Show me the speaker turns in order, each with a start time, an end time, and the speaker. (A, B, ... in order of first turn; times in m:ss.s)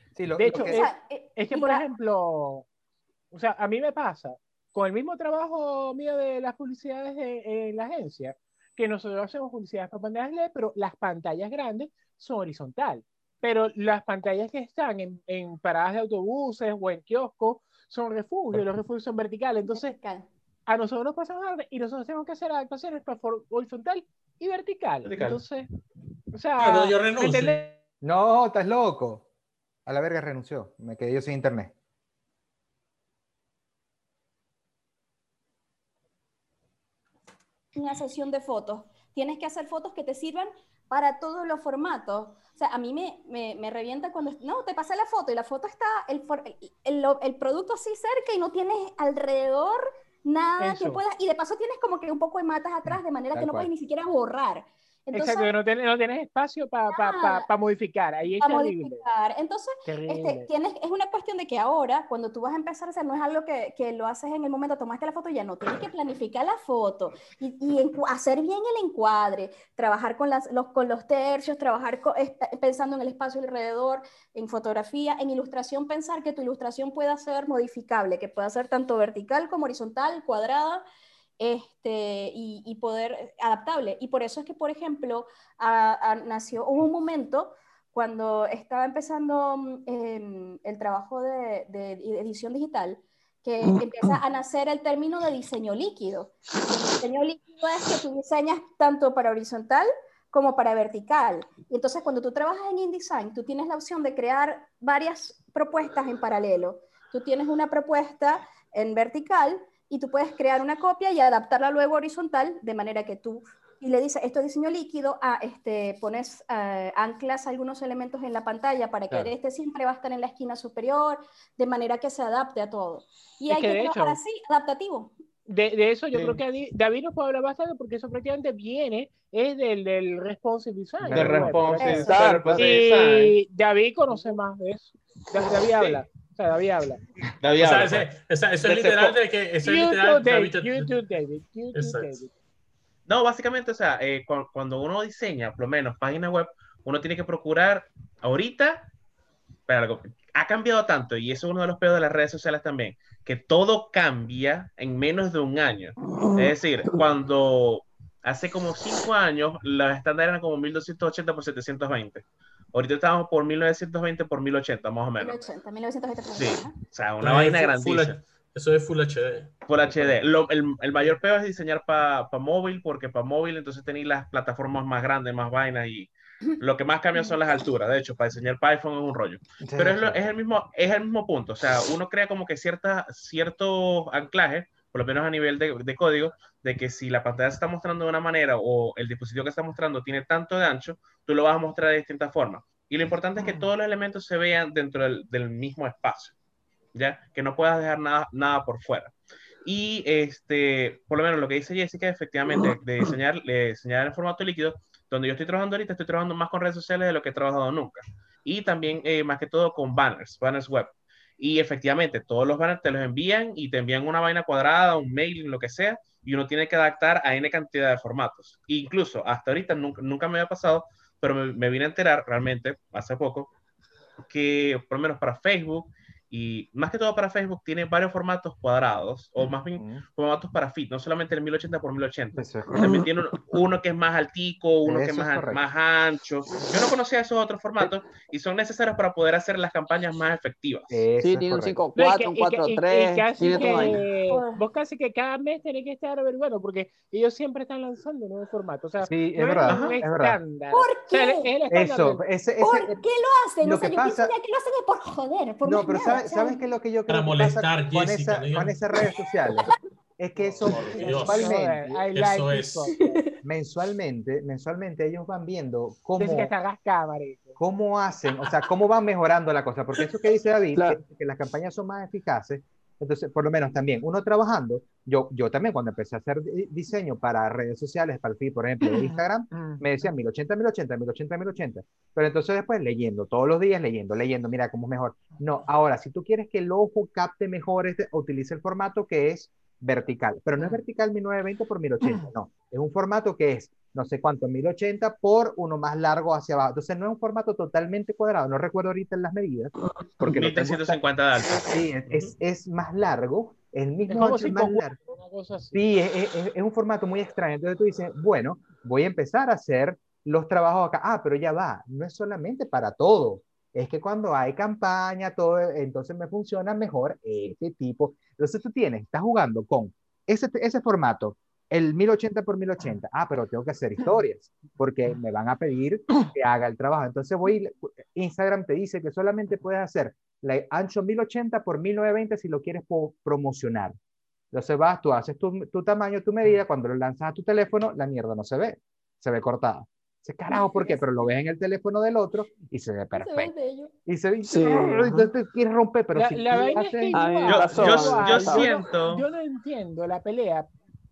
0:00.2-0:00.9 A
0:00.4-0:02.6 B
0:00.5-0:01.8 C
0:03.3-0:20.0 B
0:19.7-0:20.3 C
0:20.7-0:25.7 B
0:25.0-0:25.4 D
0:26.3-0:27.7 B
0:26.6-0:27.7 E
0:28.0-0:29.2 A
0:29.9-0:31.7 A
0:37.8-0:55.5 C
0:50.6-0:51.0 B
0:53.3-0:53.7 A
0:55.1-0:59.0 B
0:56.9-0:57.5 C
0:58.4-1:20.8 C
0:59.9-1:00.5 B
1:21.4-2:05.1 C
2:03.5-2:04.2 B
2:05.5-2:17.0 B
2:06.1-2:06.4 D
2:11.0-2:13.4 D
2:11.1-2:11.5 A
2:11.8-2:12.4 C
2:12.0-2:12.5 F
2:15.6-2:16.0 D
2:17.4-2:18.1 D
2:17.6-2:21.0 E
2:18.6-2:19.2 D
2:19.6-2:22.3 B
2:21.8-2:22.2 E
2:23.1-2:28.9 D
2:29.7-2:45.5 D
2:36.2-2:36.5 F
2:45.2-2:46.8 C
2:46.4-2:48.2 D
2:47.2-2:49.6 E
2:49.7-3:16.4 D
2:59.6-3:00.2 A
3:16.9-3:43.5 D
3:44.3-4:01.1 D
3:49.8-3:50.0 A
3:52.4-3:52.7 A
3:52.8-3:53.0 F
3:54.9-3:55.6 A
4:00.9-4:01.8 A
4:01.2-4:04.0 F
4:02.0-4:12.2 B
4:03.6-4:04.6 C
4:09.1-4:10.4 A
4:09.7-4:10.0 D
4:10.7-4:11.5 C
4:11.7-4:13.0 A
4:12.6-4:16.6 C
4:13.6-4:14.3 A
4:15.6-4:22.0 A
4:17.1-4:18.8 E
4:20.4-4:21.5 E
4:21.0-4:23.2 B
4:22.2-4:22.9 E
4:22.9-4:23.3 C
4:23.4-4:26.5 A
4:26.2-4:27.6 B
4:27.6-5:05.0 A
4:30.8-4:31.0 F
5:00.2-5:02.3 D
5:04.1-5:05.8 B
5:05.7-5:33.9 A
5:34.5-5:43.5 A
5:40.6-5:41.0 C
5:43.2-5:43.9 C
5:44.1-5:47.3 A
5:44.4-5:45.3 F
5:46.2-5:50.7 B
5:47.1-5:48.8 F
5:47.5-5:49.3 D